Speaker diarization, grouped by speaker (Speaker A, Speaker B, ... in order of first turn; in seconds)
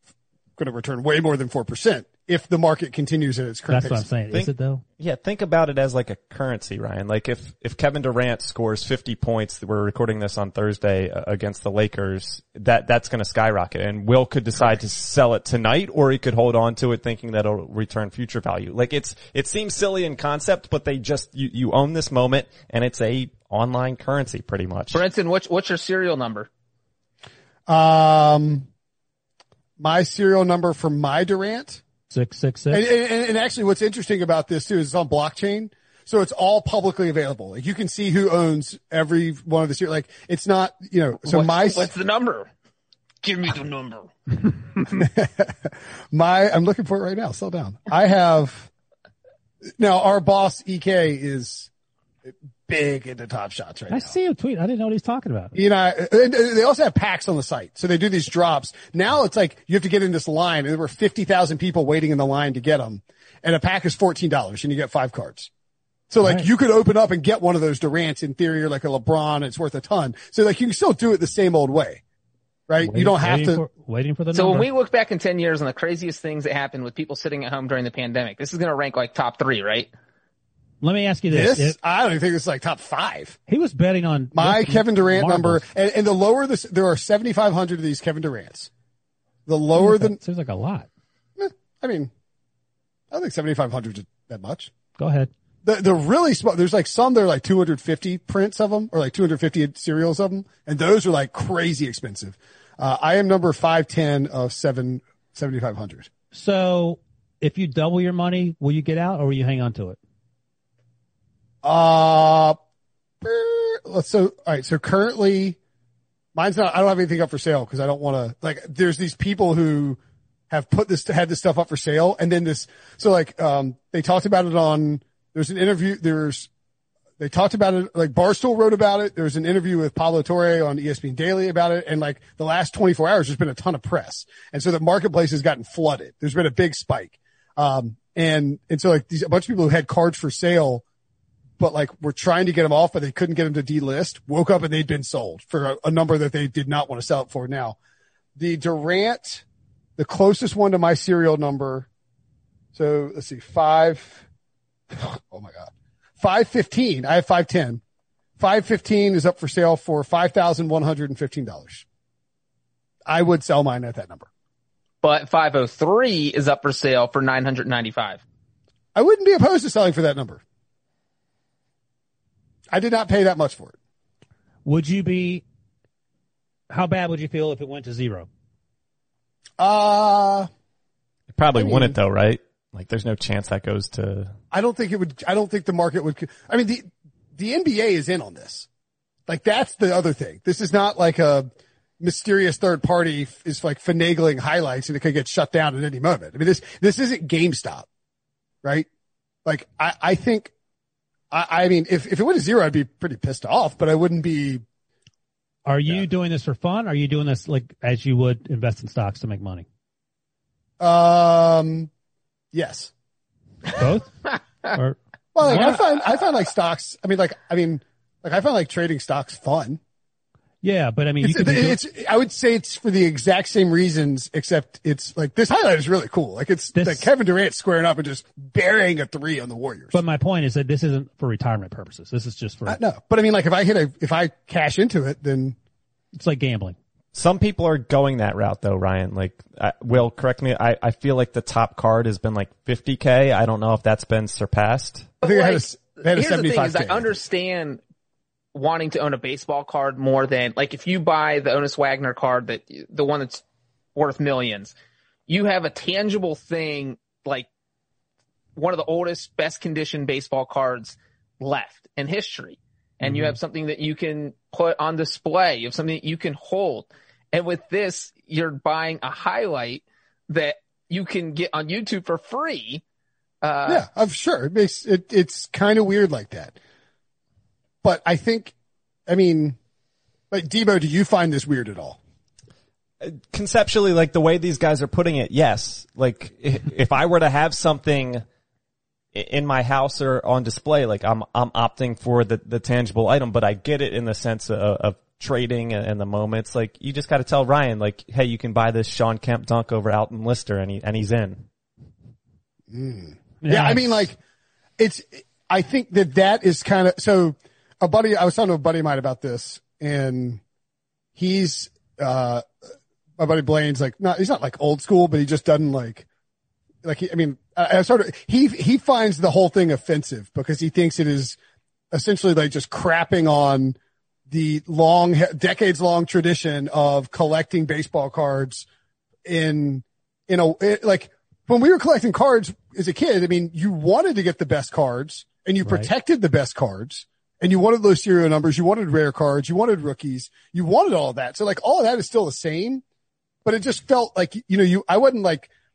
Speaker A: 0.6-4.1, 27.7-28.7, 29.8-31.8, 32.7-41.9, 44.9-48.7, 49.8-51.7, 52.2-54.1, 55.5-65.5, 66.1-72.0, 72.7-73.6, 81.3-83.4, 84.3-88.7, 89.5-90.2, 91.4-92.1, 93.1-94.7, 95.6-106.1, 111.6-112.6, 113.2-115.6, 116.3-120.0, 120.5-126.5, 127.2-140.8, 141.6-147.8, 148.3-149.4, 150.0-151.9, 152.7-154.2, 154.9-157.8, 158.4-161.8, 163.1-164.3, 168.9-170.4, 172.7-173.7, 179.6-180.5, 181.5-182.0, 184.5-188.7, 189.3-197.8, 199.4-200.5, 201.3-204.6, 210.8-211.9, 212.5-212.9, 215.3-219.8, 221.2-230.0, 232.7-235.6, 245.2-247.2, 273.6-276.6, 277.8-278.5, 279.1-279.6, 280.3-282.0, 302.7-304.2, 304.8-310.4, 311.1-312.5, 313.2-316.1, 316.8-321.4, 321.9-323.8, 324.3-328.7, 329.2-342.8, 343.4-345.5
Speaker B: 3.7-4.8, 32.1-32.9, 53.9-55.5, 66.2-66.5, 72.8-74.7, 80.8-81.8, 83.5-85.7, 89.8-90.9, 95.0-95.3, 106.3-110.0, 174.6-175.4, 176.7-178.3, 205.7-209.7, 213.7-214.1, 214.7-215.8, 220.6-221.8, 226.7-227.1, 229.9-232.8, 236.2-236.8, 263.0-263.3, 303.4-304.1, 335.6-335.9
Speaker C: 4.3-25.0, 181.3-184.3, 237.1-245.1, 283.0-288.2, 289.1-301.4
Speaker D: 24.9-26.5, 41.2-42.5, 43.2-44.1, 74.3-79.9, 165.0-168.2, 245.2-247.8, 248.5-253.4, 253.9-254.7, 255.3-257.5, 258.6-272.8, 273.4-273.8